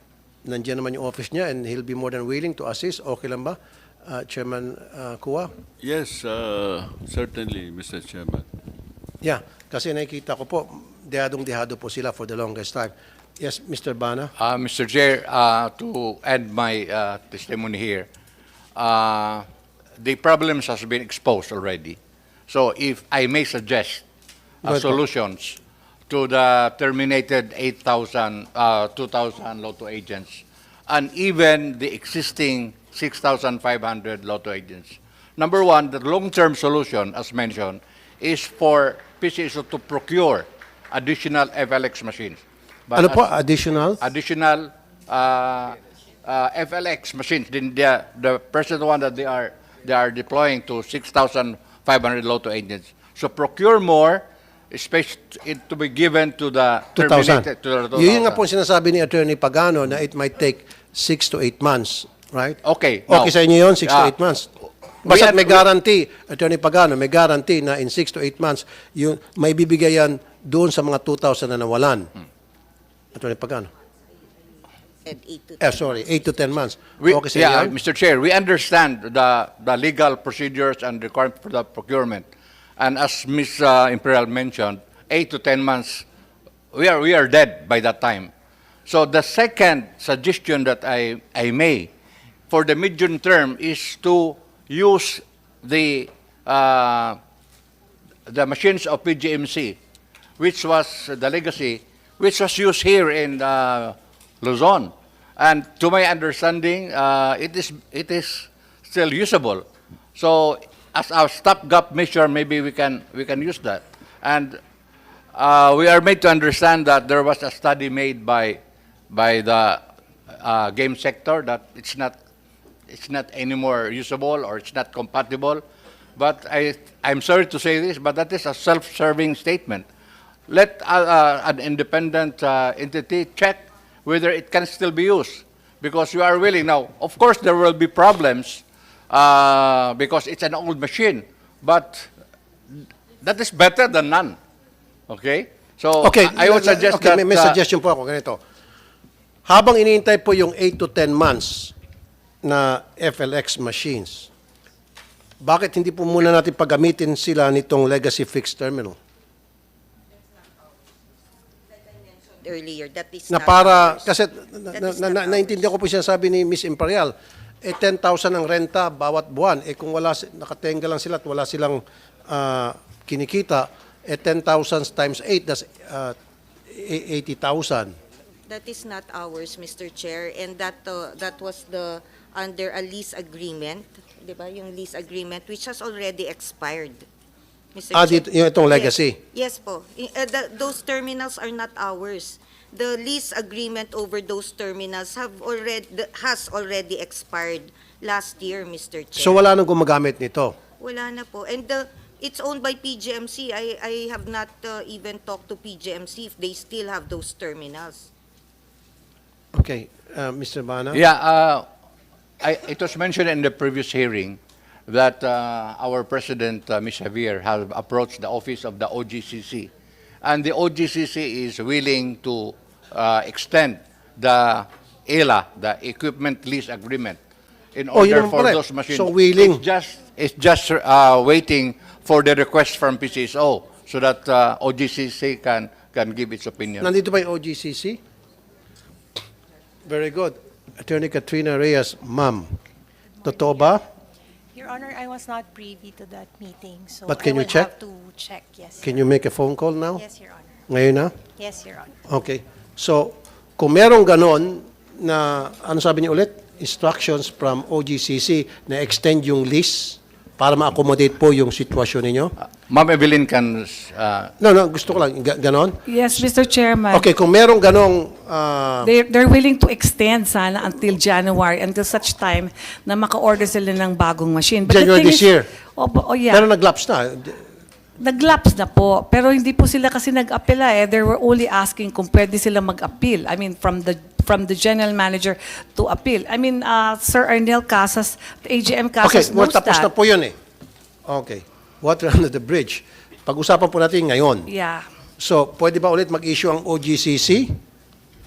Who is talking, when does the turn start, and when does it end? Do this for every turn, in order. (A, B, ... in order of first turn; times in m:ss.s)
0:00.4-0:05.5 A
0:05.8-0:08.5 B
0:09.2-0:14.3 A
0:14.4-0:18.1 C
0:18.8-0:19.4 C
0:20.0-0:22.0 C
0:22.5-0:24.0 C
0:24.6-0:25.0 A
0:24.6-0:25.6 C
0:26.1-0:43.2 C
0:42.9-0:44.0 A
0:44.0-0:58.4 C
0:57.0-1:04.5 A
1:02.6-1:04.1 C
1:05.0-1:12.1 A
1:05.0-1:05.6 C
1:13.1-1:13.7 A
1:15.0-1:16.4 D
1:15.6-1:17.7 A
1:17.0-1:22.2 C
1:22.8-1:26.0 C
1:26.7-1:28.3 C
1:28.9-1:31.9 C
1:32.5-1:37.2 C
1:38.3-1:39.8 C
1:40.4-1:49.6 C
1:50.2-1:54.6 C
1:55.3-1:58.6 C
1:59.1-2:02.1 C
2:02.9-2:05.6 C
2:06.2-2:09.8 C
2:10.5-2:22.1 C
2:22.7-2:24.4 C
2:25.1-2:27.6 C
2:26.0-2:28.4 A
2:29.4-2:31.7 A
2:32.4-2:34.3 A
2:35.4-2:39.0 A
2:42.3-2:44.1 D
2:43.3-2:56.2 A
2:44.7-2:45.7 D
2:56.7-2:57.9 A
2:58.5-3:07.0 D
3:07.7-3:19.4 D
3:07.9-3:09.2 A
3:19.2-3:20.5 A
3:20.8-3:28.1 D
3:29.5-3:31.0 A
3:30.9-3:31.6 C
3:32.4-3:39.7 C
3:40.2-3:47.2 C
3:47.7-3:56.9 C
3:47.9-3:49.6 A
3:56.8-3:58.0 A
3:59.8-4:02.6 A
4:03.2-4:03.6 E
4:03.2-4:03.8 A
4:04.5-4:09.0 E
4:07.1-4:07.7 A
4:08.8-4:10.0 A
4:09.9-4:10.6 E
4:10.7-4:11.1 A
4:11.4-4:11.9 E
4:12.1-4:22.3 A
4:22.7-4:24.3 C
4:24.4-4:26.3 A
4:25.8-4:27.1 F
4:26.9-4:28.9 A
4:28.8-4:36.5 F
4:34.6-4:35.5 A
4:36.3-4:37.4 A
4:38.0-4:49.9 F
4:49.0-4:50.4 A
4:51.1-4:54.5 A
4:54.5-4:54.9 F
4:55.2-4:57.6 A